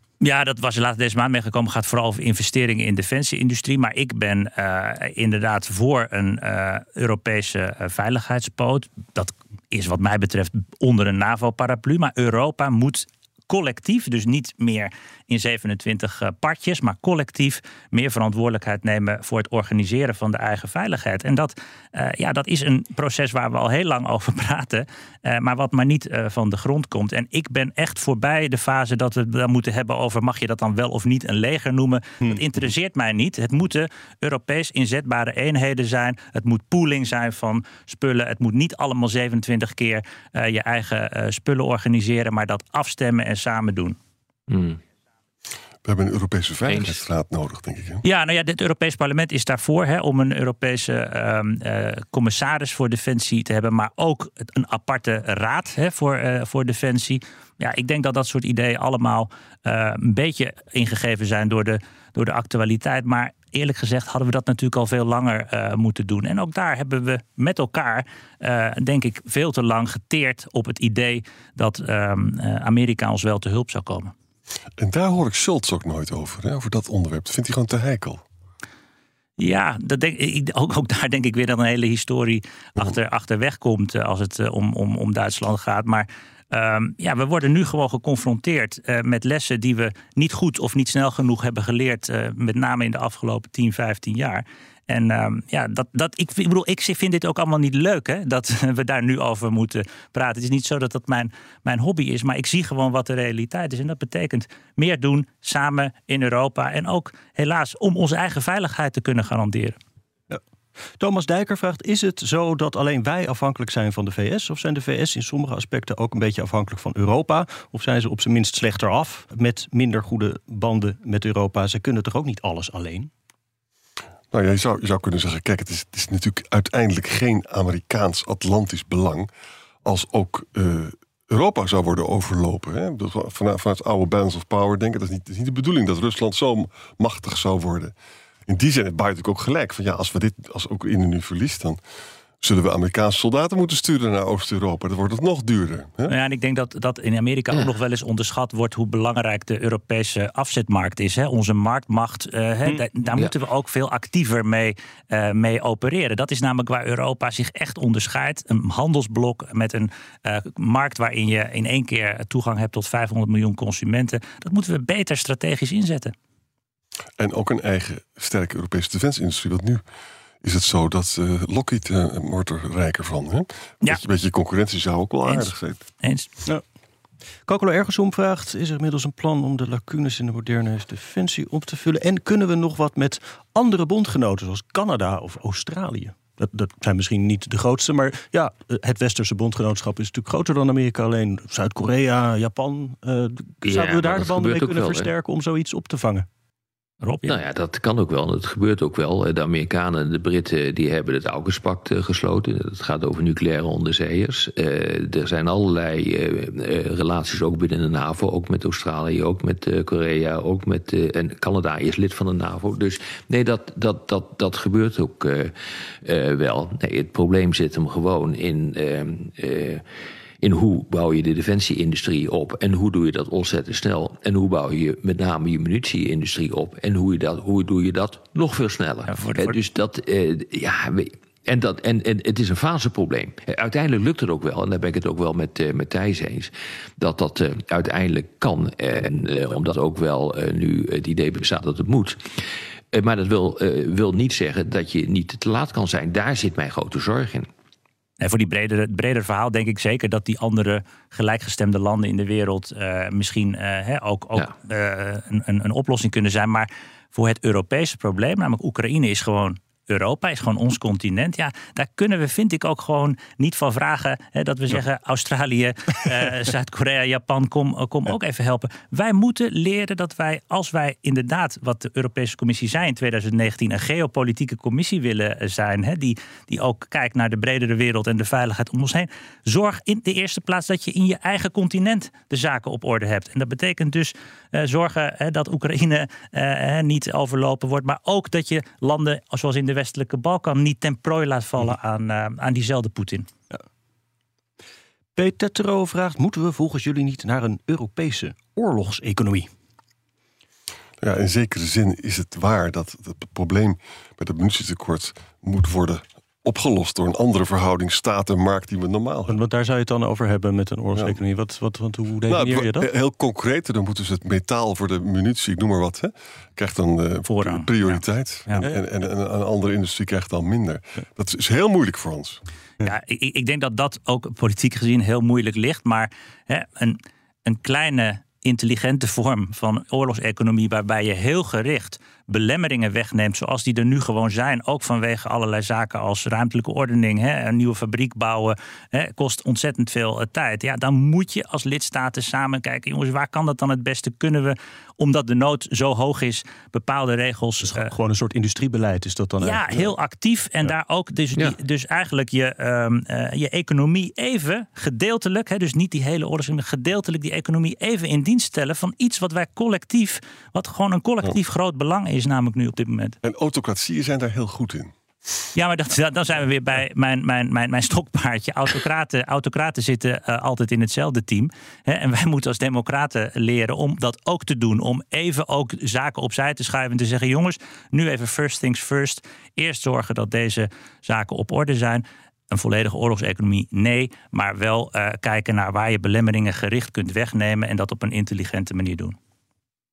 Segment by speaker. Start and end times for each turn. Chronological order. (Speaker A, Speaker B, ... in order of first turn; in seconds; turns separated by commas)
Speaker A: 0.2-44.0, Speaker B: 44.5-44.8, Speaker C: 45.8-48.0, Speaker B: 46.7-47.0, Speaker A: 48.0-74.1, Speaker C: 74.8-78.2, Speaker A: 79.4-109.8, Speaker D: 111.0-123.1, Speaker C: 124.3-129.3, Speaker C: 129.8-137.9, Speaker C: 138.5-141.8, Speaker C: 142.4-146.1, Speaker A: 146.1-166.1, Speaker C: 167.2-169.8, Speaker C: 170.4-175.8, Speaker A: 175.3-176.3, Speaker D: 177.5-196.3, Speaker B: 193.6-195.1, Speaker A: 197.0-197.4, Speaker B: 197.2-219.8, Speaker B: 220.4-247.5, Speaker A: 229.1-229.6, Speaker A: 248.2-293.3, Speaker D: 295.2-299.5, Speaker C: 301.0-309.4, Speaker D: 309.3-312.9, Speaker C: 312.3-322.4, Speaker A: 317.3-318.6, Speaker A: 322.8-347.9, Speaker D: 347.6-349.9, Speaker A: 349.4-363.2, Speaker C: 363.2-364.9, Speaker A: 365.6-389.2